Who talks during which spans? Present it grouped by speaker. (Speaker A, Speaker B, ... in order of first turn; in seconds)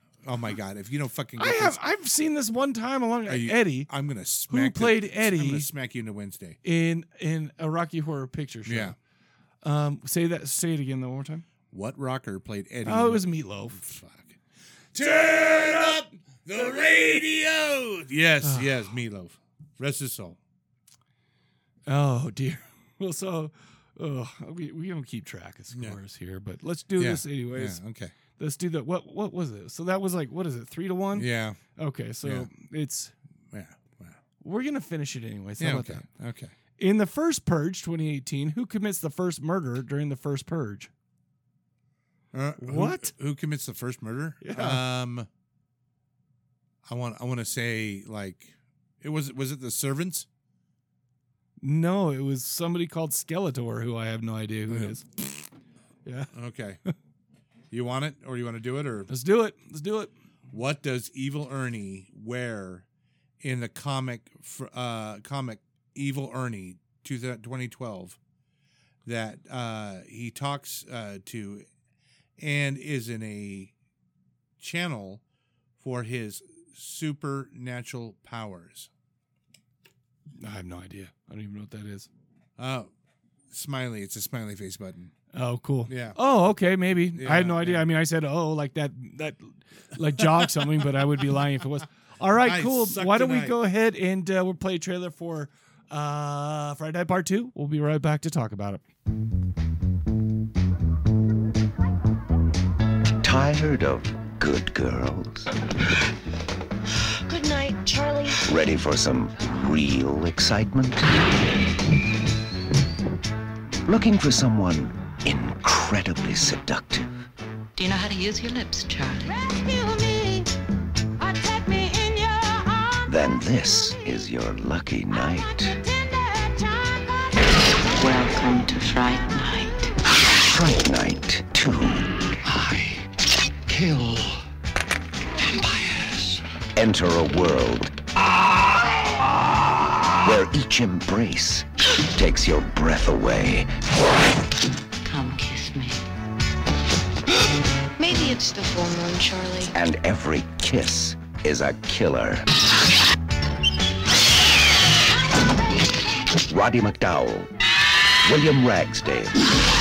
Speaker A: 0.2-1.8, 3.3-6.6, 8.7-8.9, 11.7-14.4, 14.9-20.4, 25.7-26.0, 27.0-28.1, 31.1-31.6, 32.2-32.5, 33.5-34.2, 35.6-36.5, 42.3-45.3, 46.8-50.3, 54.7-55.0, 56.3-56.8, 57.7-59.1, 60.5-62.9, 63.4-68.2, 69.0-71.7, 72.4-73.7, 74.6-75.2, 75.8-78.9, 82.6-82.9, 83.5-85.1, 85.9-86.2, 87.1-87.9, 90.2-90.8, 92.4-93.6
Speaker B: 1.4-3.9, 4.5-5.7, 6.6-8.9, 9.6-11.4, 12.8-13.8, 18.4-18.7, 21.9-27.8, 28.4-33.1, 34.4-36.0, 36.8-40.9, 42.6-43.1, 44.4-44.8, 51.6-55.1, 56.0-56.3, 59.1-60.1, 80.4-82.1, 85.3-98.8
Speaker C: 103.2-105.5, 108.5-111.1, 113.8-117.1, 123.1-125.8, 130.4-132.1, 136.8-137.9, 140.2-143.7, 149.7-152.4, 156.5-157.5, 158.2-159.3
Speaker D: 107.3-108.4, 119.9-120.3, 121.6-122.2, 148.0-149.7
Speaker E: 117.8-119.5, 127.9-129.9, 145.0-146.0